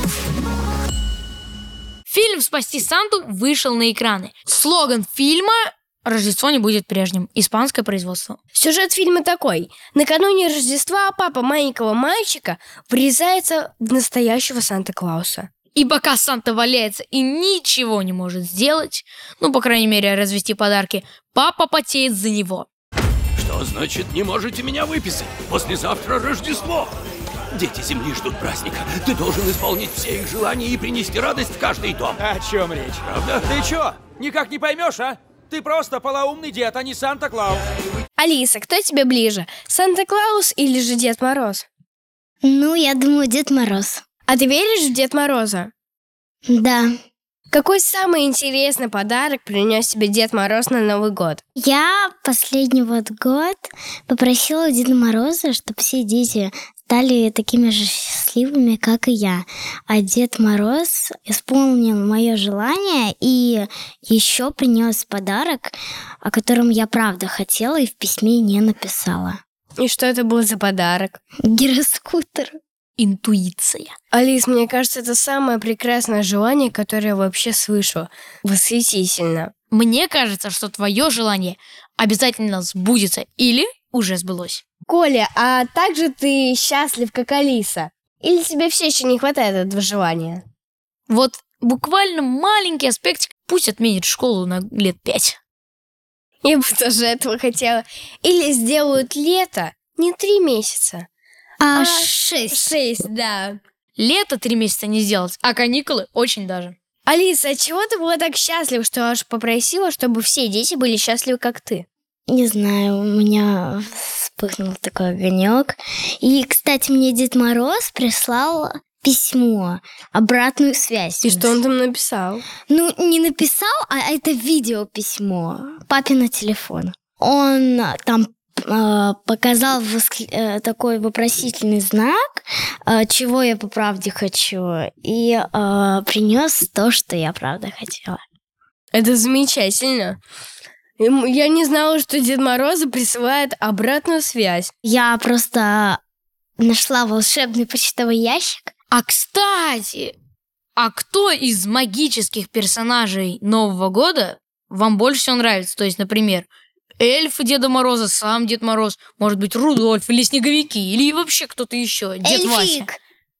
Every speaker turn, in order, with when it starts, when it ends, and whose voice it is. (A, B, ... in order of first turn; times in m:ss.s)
0:02.1-0:08.4 A
0:08.5-0:15.5 B
0:15.7-0:22.7 A
0:23.4-0:26.9 C
0:27.5-0:32.2 C
0:32.2-0:37.6 D
0:33.0-0:33.4 C
0:38.2-0:41.6 B
0:42.4-0:44.0 E
0:44.3-0:45.7 B
0:46.4-0:46.9 E
0:47.5-0:51.4 B
0:51.6-1:09.4 E
1:09.8-1:11.2 B
1:11.4-1:12.6 E
1:13.0-1:13.9 A
1:14.1-1:19.5 B
1:19.7-1:24.6 A
1:24.9-1:30.4 B
1:31.1-1:35.4 A
1:36.4-1:41.1 B
1:41.6-1:42.7 E
1:41.7-1:43.6 B
1:44.0-1:46.7 A
1:47.1-1:51.8 B
1:52.3-2:01.6 E
2:01.2-2:02.4 B
2:02.7-2:18.2 E
2:18.9-2:20.2 B
2:21.0-2:24.7 B
2:24.8-2:26.0 E
2:26.6-2:28.7 E
2:28.9-2:30.1 A
2:30.8-2:36.5 A
2:37.0-2:42.9 A
2:42.2-2:43.0 E